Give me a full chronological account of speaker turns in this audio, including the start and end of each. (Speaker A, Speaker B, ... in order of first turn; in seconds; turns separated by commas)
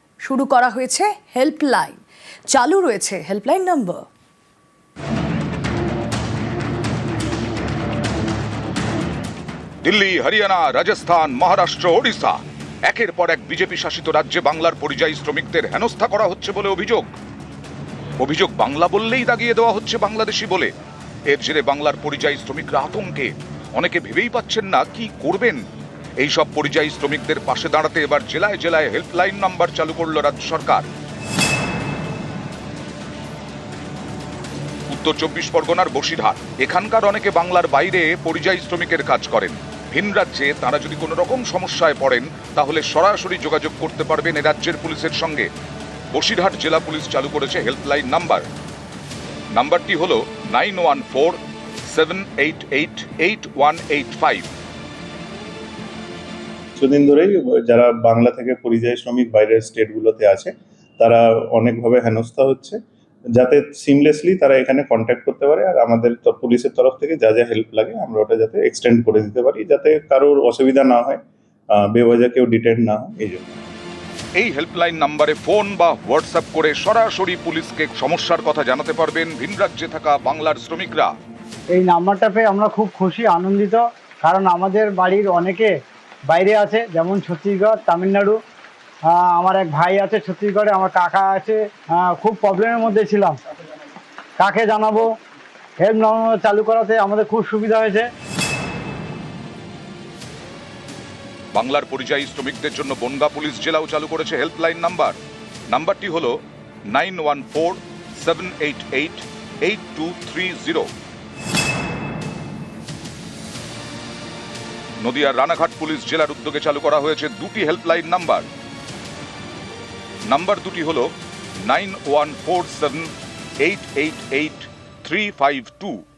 Speaker A: 0.2-2.0, Speaker A: 2.5-4.0, Speaker B: 9.8-17.1, Speaker B: 18.2-20.7, Speaker B: 21.3-25.6, Speaker B: 26.2-30.9, Speaker B: 34.9-45.5, Speaker B: 46.1-48.4, Speaker B: 49.5-51.4, Speaker B: 51.9-54.5, Speaker C: 56.8-62.8, Speaker C: 63.3-71.2, Speaker C: 71.7-73.5, Speaker B: 74.3-81.1, Speaker D: 81.7-85.7, Speaker D: 86.3-88.4, Speaker D: 89.1-93.4, Speaker D: 94.4-95.1, Speaker D: 95.8-98.1, Speaker B: 101.5-105.2, Speaker B: 105.7-106.3, Speaker B: 106.9-110.9, Speaker B: 115.0-118.5, Speaker B: 120.3-121.1, Speaker B: 121.6-123.1, Speaker B: 123.6-126.0